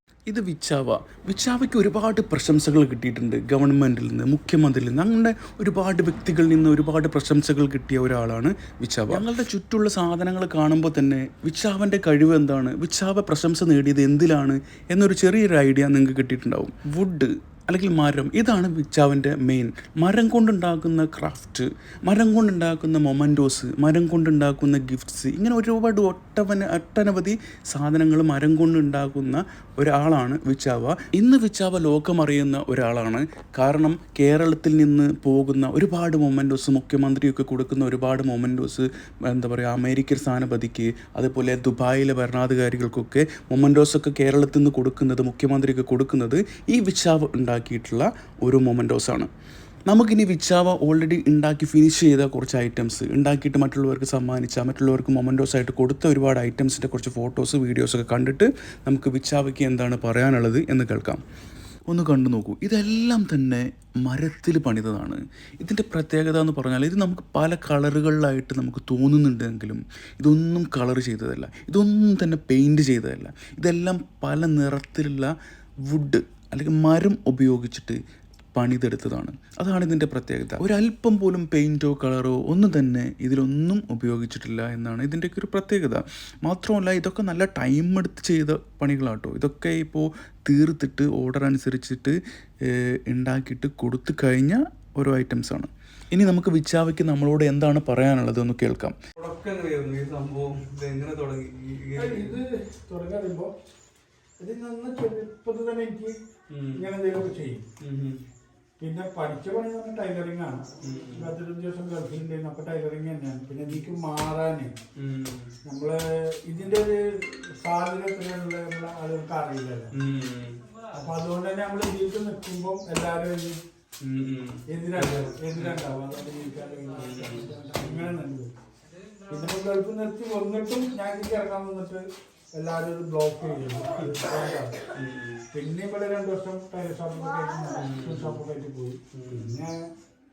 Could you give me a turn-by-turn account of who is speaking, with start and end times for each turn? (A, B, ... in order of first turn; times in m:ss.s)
0:00.3-0:49.3 A
0:08.9-0:09.3 B
0:49.9-1:01.2 A
1:01.9-1:15.3 A
1:15.8-1:18.0 A
1:18.5-1:39.0 A
1:39.2-1:42.4 B
1:42.0-1:43.5 C
1:44.4-1:46.2 C
1:46.5-1:46.9 B
1:46.7-1:47.6 C
1:47.8-1:48.2 B
1:48.8-1:54.8 C
1:50.8-1:51.3 B
1:55.0-1:55.5 B
1:55.6-1:59.9 C
1:59.9-2:00.6 B
2:00.9-2:03.6 C
2:04.0-2:05.8 B
2:04.7-2:08.6 C
2:07.0-2:08.1 B
2:09.3-2:12.0 C
2:12.5-2:14.8 C
2:14.9-2:15.5 B
2:15.5-2:19.9 C
2:17.8-2:18.4 B
2:19.1-2:19.6 B